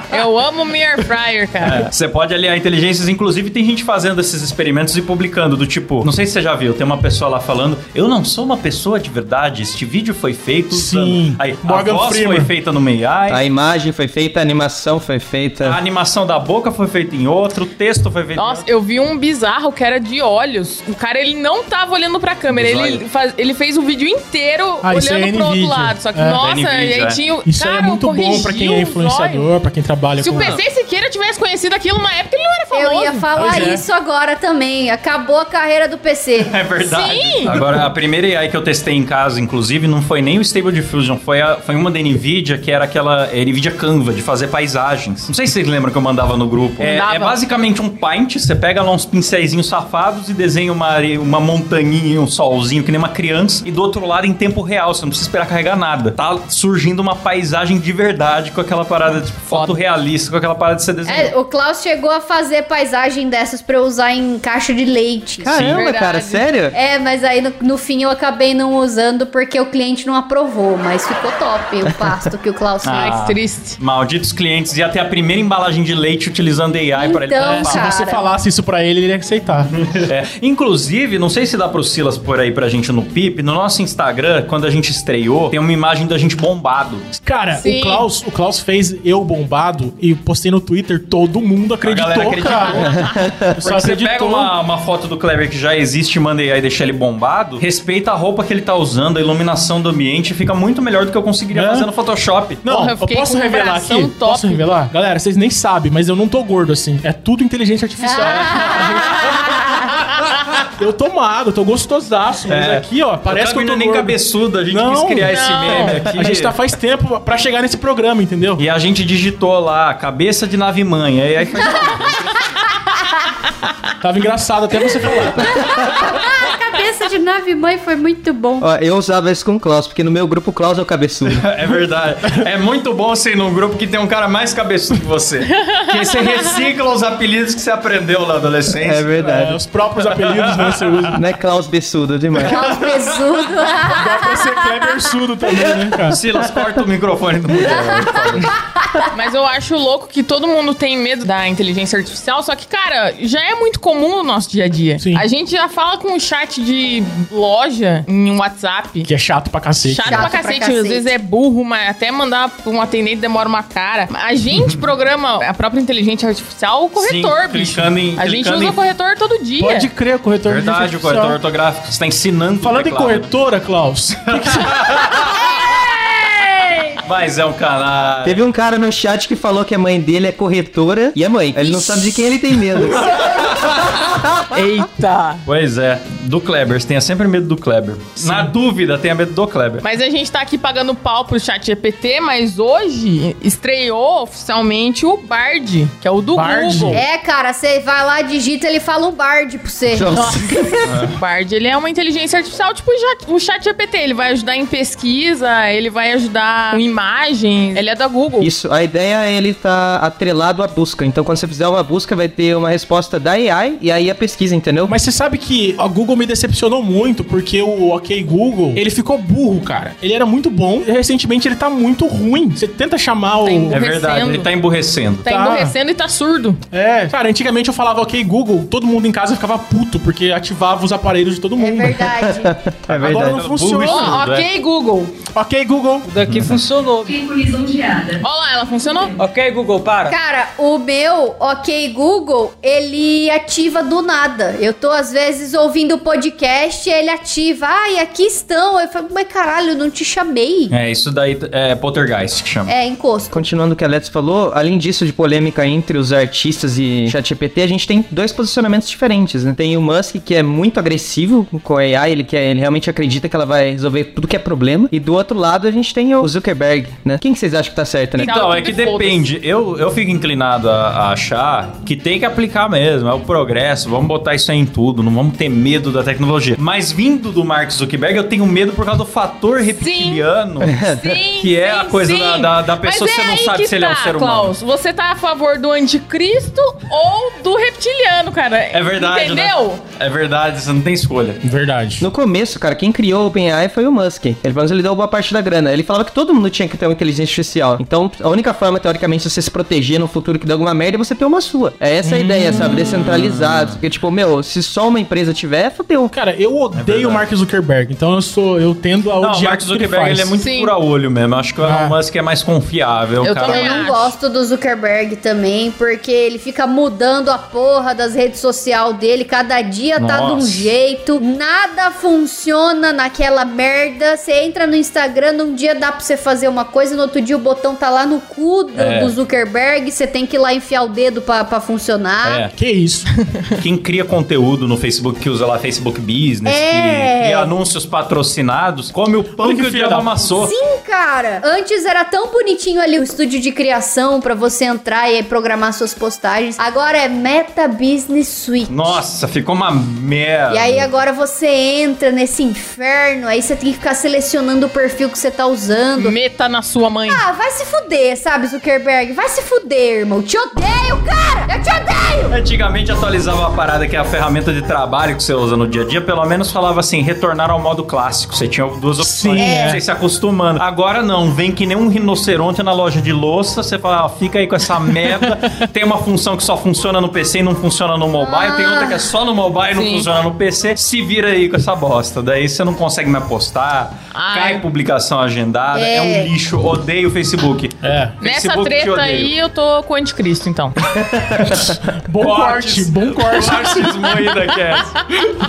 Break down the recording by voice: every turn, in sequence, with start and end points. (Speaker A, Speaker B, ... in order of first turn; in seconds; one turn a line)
Speaker A: 0.1-1.9
Speaker B: 1.6-13.4
Speaker C: 10.7-12.5
Speaker D: 13.3-15.8
Speaker B: 15.6-18.7
Speaker A: 18.4-29.5
Speaker B: 22.5-23.0
Speaker C: 24.8-26.4
Speaker B: 26.4-27.2
Speaker C: 27.4-30.6
Speaker A: 30.2-33.6
Speaker E: 32.7-36.7
Speaker C: 33.3-33.8
Speaker B: 36.4-61.3
Speaker A: 36.8-37.6
Speaker A: 46.8-47.3
Speaker A: 59.5-59.8
Speaker E: 61.0-65.8
Speaker D: 65.4-66.8
Speaker A: 65.6-66.4
Speaker E: 66.7-73.2
Speaker D: 71.9-72.2
Speaker B: 72.8-77.8
Speaker A: 72.9-73.8
Speaker E: 77.0-78.2
Speaker C: 77.4-79.7
Speaker B: 79.7-87.1
Speaker C: 87.2-92.9
Speaker A: 87.6-88.1
Speaker B: 91.8-92.9
Speaker D: 92.9-93.5
Speaker C: 93.5-94.5
Speaker B: 93.6-102.7
Speaker C: 101.5-101.9
Speaker C: 102.6-109.5
Speaker A: 102.7-104.8
Speaker E: 108.0-109.2
Speaker C: 110.6-114.2
Speaker B: 112.5-116.5
Speaker C: 114.7-118.6
Speaker A: 115.2-116.1
Speaker B: 118.6-122.4
Speaker E: 121.7-121.9
Speaker C: 124.0-125.5
Speaker E: 125.4-128.7
Speaker D: 128.6-131.5
Speaker B: 131.2-139.1
Speaker A: 135.5-136.0
Speaker D: 138.8-139.6
Speaker C: 139.2-141.2
Speaker B: 140.1-141.1
Speaker D: 141.1-142.8
Speaker E: 142.4-144.6
Speaker B: 142.7-143.3
Speaker C: 143.9-146.2
Speaker B: 146.1-148.5
Speaker E: 147.7-149.1
Speaker A: 149.1-159.1
Speaker C: 155.0-155.2
Speaker C: 159.0-160.3
Speaker A: 159.9-169.9
Speaker E: 160.0-161.1
Speaker B: 167.0-168.8
Speaker C: 169.6-171.4
Speaker B: 170.4-173.3
Speaker C: 172.6-175.2
Speaker B: 174.3-175.7
Speaker A: 175.6-177.0
Speaker B: 177.0-178.4
Speaker D: 178.2-183.4
Speaker B: 183.0-184.1
Speaker A: 184.5-185.4
Speaker B: 185.4-189.8
Speaker A: 189.8-197.0
Speaker C: 196.3-197.0
Speaker E: 196.9-201.0
Speaker D: 199.9-200.7
Speaker A: 200.1-208.5
Speaker B: 200.9-201.1
Speaker D: 208.4-214.9
Speaker C: 214.9-223.8
Speaker A: 223.4-224.5
Speaker B: 223.7-225.2
Speaker A: 225.2-226.6
Speaker C: 225.2-225.7
Speaker C: 226.7-232.1
Speaker E: 231.6-232.6
Speaker D: 232.2-233.4
Speaker B: 232.9-234.5
Speaker C: 232.9-234.2
Speaker A: 233.8-235.2
Speaker C: 235.3-236.1
Speaker F: 236.0-238.2
Speaker B: 236.2-236.6
Speaker A: 238.2-239.2
Speaker F: 239.2-240.2
Speaker E: 240.1-250.7
Speaker B: 250.7-252.7
Speaker E: 252.7-253.4
Speaker D: 253.3-268.3
Speaker B: 268.1-280.8
Speaker A: 268.2-269.2
Speaker A: 279.8-289.8
Speaker D: 280.6-281.2
Speaker B: 281.4-284.5
Speaker B: 288.7-291.4
Speaker C: 291.4-292.1
Speaker D: 292.0-306.1
Speaker C: 302.0-302.7
Speaker B: 303.0-303.8
Speaker C: 306.1-310.3
Speaker B: 306.7-307.2
Speaker B: 309.2-314.0
Speaker A: 310.4-310.7
Speaker C: 311.6-311.9
Speaker A: 313.2-314.1
Speaker E: 313.4-332.4
Speaker B: 320.0-320.7
Speaker B: 328.8-329.1
Speaker B: 332.2-332.5
Speaker C: 332.5-333.1
Speaker B: 333.6-340.5
Speaker E: 336.4-337.5
Speaker C: 339.4-340.3
Speaker E: 340.4-349.0
Speaker B: 348.7-350.9
Speaker E: 350.5-356.2
Speaker A: 356.0-357.2
Speaker E: 357.1-362.3
Speaker B: 362.3-389.3
Speaker C: 369.0-369.8
Speaker E: 369.4-369.8
Speaker E: 378.2-379.1
Speaker A: 379.7-380.1
Speaker A: 384.1-384.6
Speaker E: 385.7-386.3
Speaker C: 387.8-388.2
Speaker A: 388.2-390.8
Speaker D: 391.0-391.6
Speaker B: 391.4-391.7
Speaker C: 391.6-394.0
Speaker B: 392.2-395.0